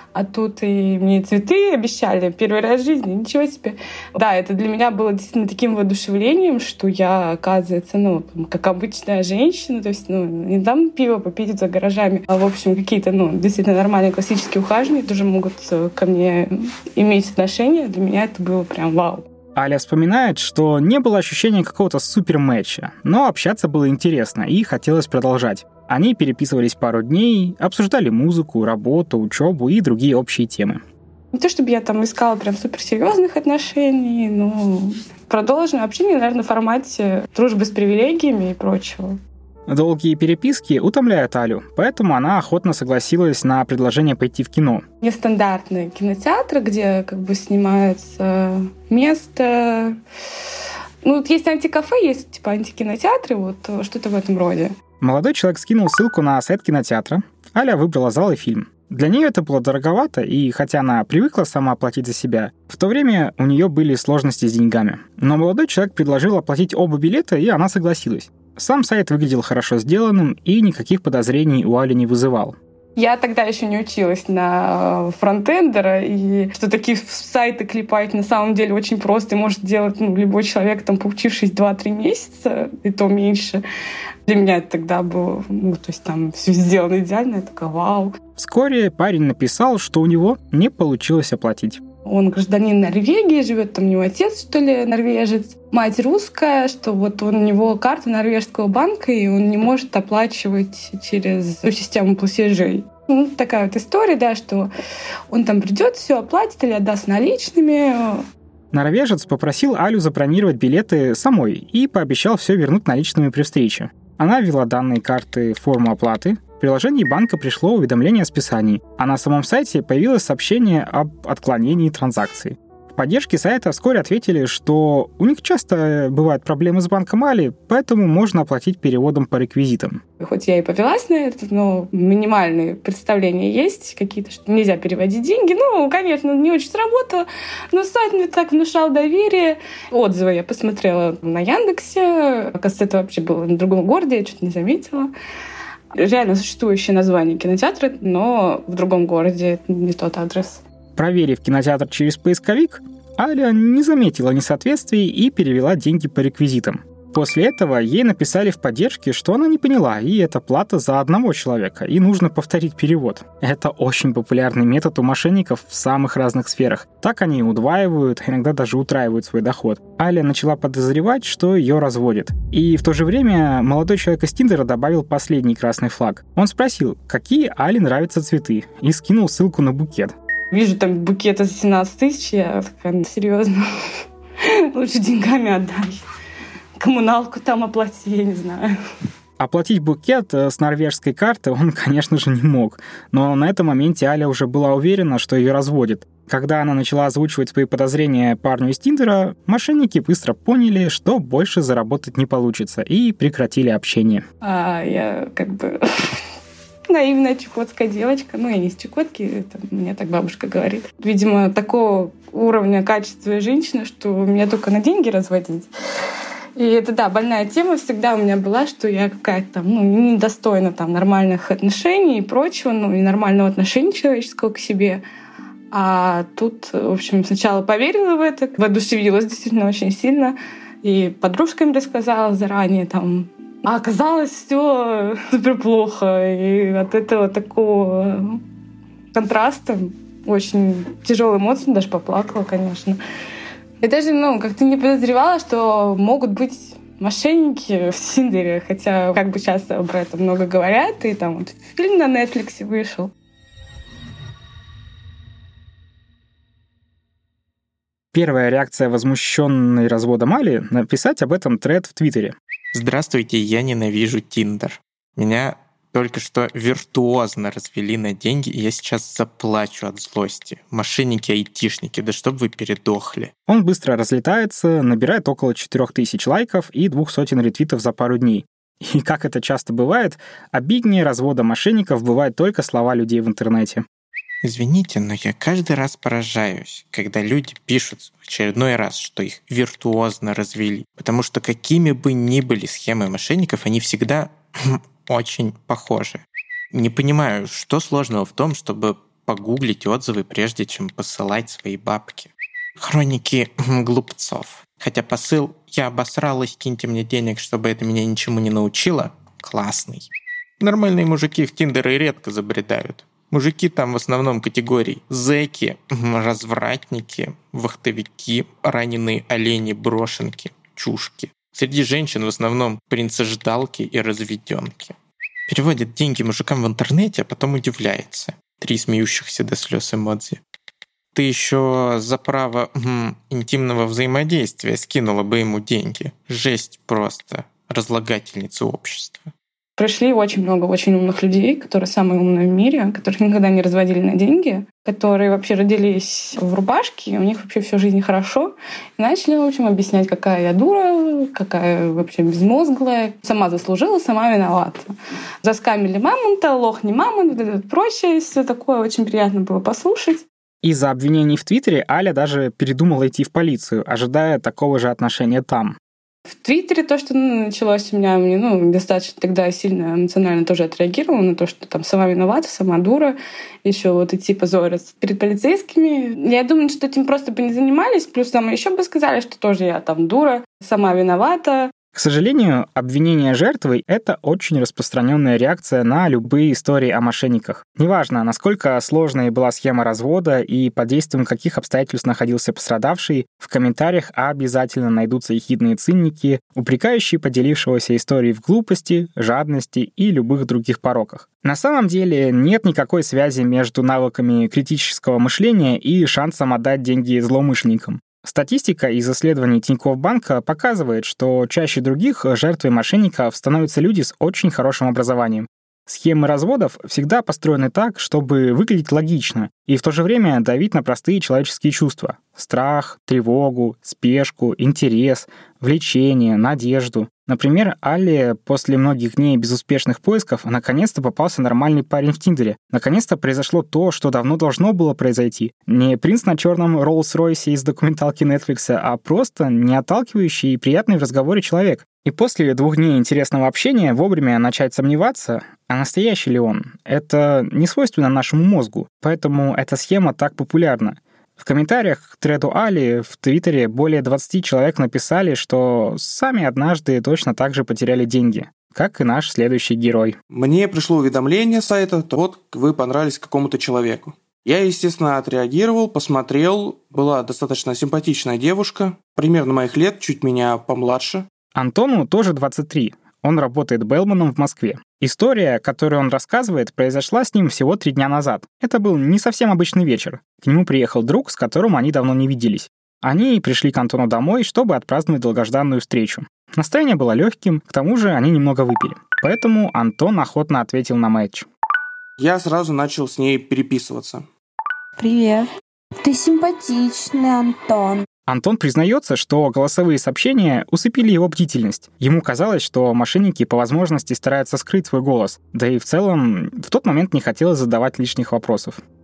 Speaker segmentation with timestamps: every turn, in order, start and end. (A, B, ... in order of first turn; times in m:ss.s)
0:00.1-0:19.3 A
0:19.6-0:30.8 B
0:31.3-0:39.2 A
0:39.7-0:44.8 B
0:45.0-0:50.0 A
0:51.0-0:54.7 A
0:55.0-1:12.6 B
1:13.0-1:23.6 A
1:24.3-1:28.1 A
1:28.4-1:31.8 B
1:32.0-1:44.7 A
1:45.3-1:48.2 A
1:48.7-2:10.0 B
2:10.2-2:25.1 A
2:25.9-2:30.6 A
2:31.0-3:00.1 B
3:00.5-3:03.6 A
3:04.4-3:06.0 A
3:06.8-3:08.7 A
3:09.4-3:24.2 B
3:24.4-3:26.1 A
3:26.9-3:35.7 A
3:36.6-3:45.0 A
3:45.7-3:58.4 A
3:59.1-4:03.0 A
4:03.8-4:13.1 A
4:18.1-4:22.4 B
4:22.7-4:33.3 C
4:33.5-4:43.8 B
4:44.4-5:25.0 C
5:25.5-5:30.4 C
5:31.2-5:39.3 C
5:39.8-5:54.9 A
5:55.4-6:00.2 A
6:00.6-6:05.8 B
6:06.3-6:21.7 A
6:21.9-7:40.2 B
7:40.3-7:51.3 D
7:51.6-8:11.5 B
8:12.2-8:14.2 D
8:15.0-8:15.5 E
8:16.0-8:18.0 E
8:18.3-8:28.8 B